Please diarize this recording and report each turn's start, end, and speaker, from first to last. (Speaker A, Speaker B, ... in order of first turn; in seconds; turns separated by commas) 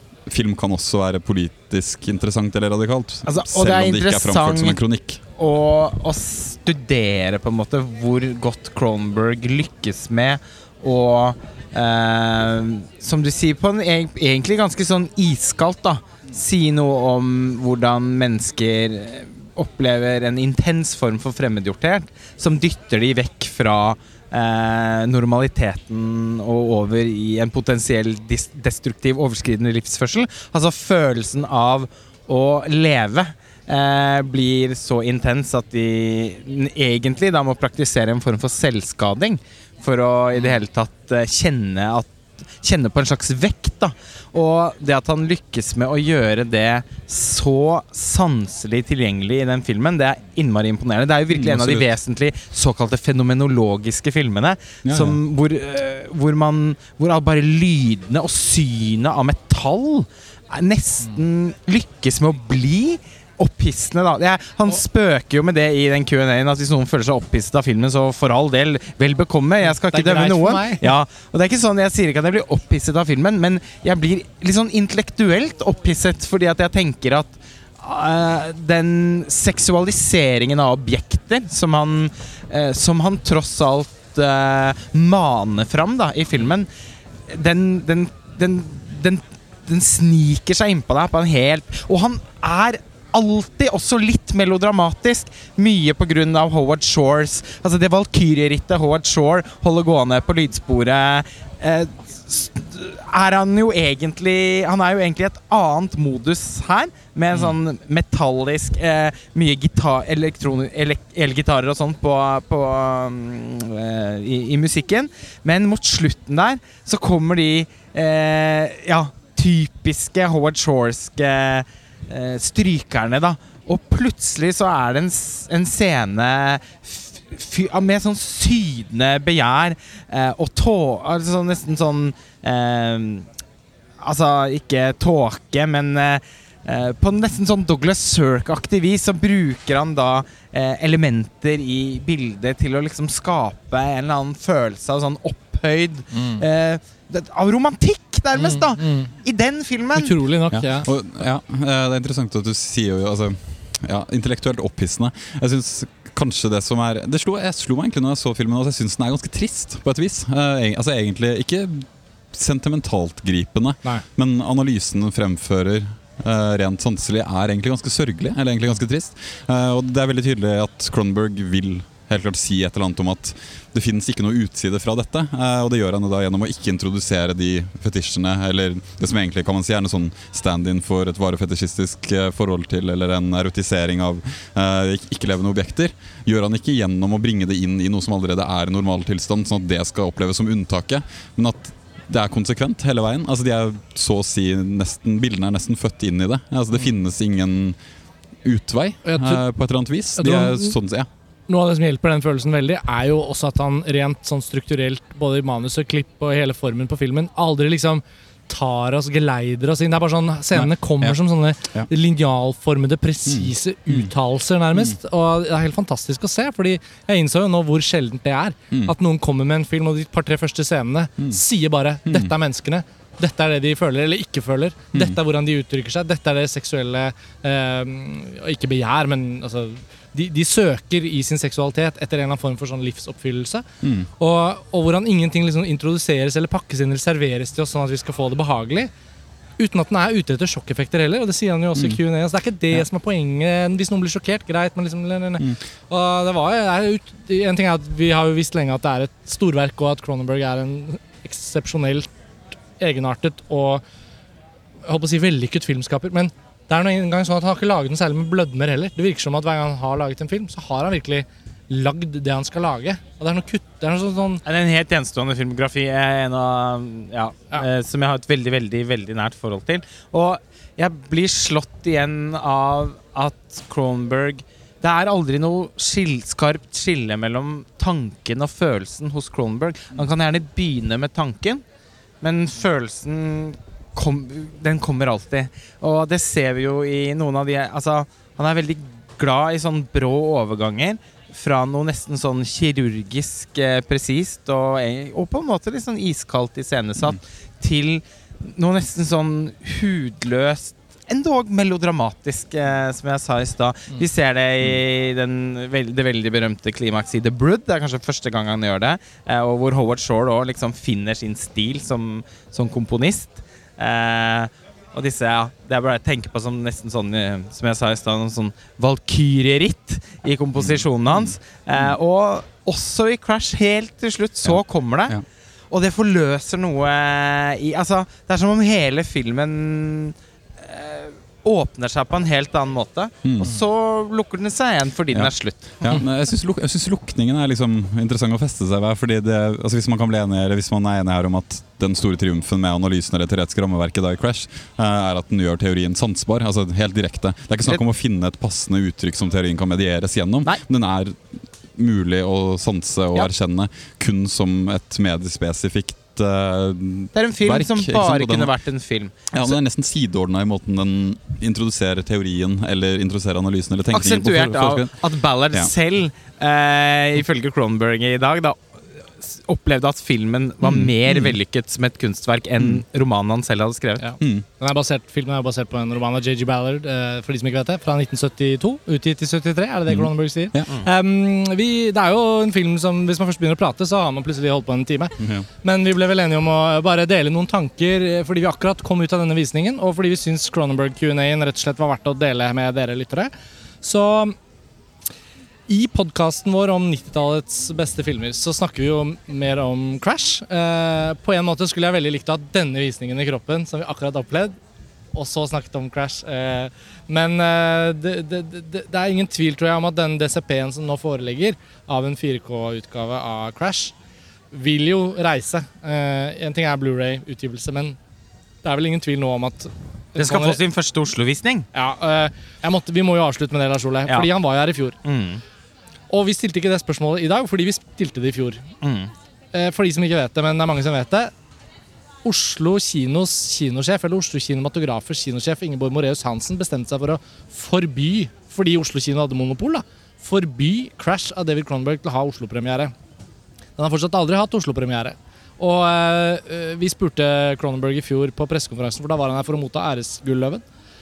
Speaker A: 0.3-5.2, Speaker B: 3.2-4.8, Speaker B: 5.4-42.1, Speaker B: 42.6-86.7, Speaker A: 51.3-51.9, Speaker A: 54.8-55.2, Speaker C: 69.6-70.9, Speaker B: 87.3-133.2, Speaker B: 134.0-150.2, Speaker C: 146.1-146.4, Speaker C: 148.3-149.1, Speaker C: 149.9-150.9, Speaker A: 150.5-197.8, Speaker A: 198.4-201.1, Speaker C: 199.0-199.4, Speaker C: 200.2-200.7, Speaker C: 201.5-233.6, Speaker A: 210.5-211.9, Speaker A: 213.3-214.1, Speaker A: 222.1-222.3, Speaker A: 233.8-234.1, Speaker C: 234.2-238.9, Speaker C: 239.6-252.1, Speaker C: 252.8-253.8, Speaker C: 254.8-264.4, Speaker B: 264.4-281.6, Speaker B: 282.2-325.1, Speaker A: 320.6-322.0, Speaker A: 324.4-325.2, Speaker B: 325.7-336.0, Speaker A: 333.2-333.5, Speaker A: 335.1-358.5, Speaker B: 357.1-359.6, Speaker A: 359.3-365.7, Speaker B: 363.9-368.6, Speaker B: 369.2-374.0, Speaker A: 370.6-371.3, Speaker C: 374.0-393.3, Speaker A: 374.2-374.4, Speaker A: 379.9-380.7, Speaker A: 385.2-385.5, Speaker C: 393.8-394.4, Speaker C: 395.7-404.5, Speaker C: 405.1-413.9, Speaker C: 414.5-418.0, Speaker C: 418.6-420.6, Speaker B: 420.1-421.6, Speaker C: 421.7-425.0, Speaker B: 425.0-425.4, Speaker C: 426.1-428.6, Speaker B: 428.8-429.1, Speaker C: 429.5-431.3, Speaker C: 432.2-442.9, Speaker C: 443.8-450.6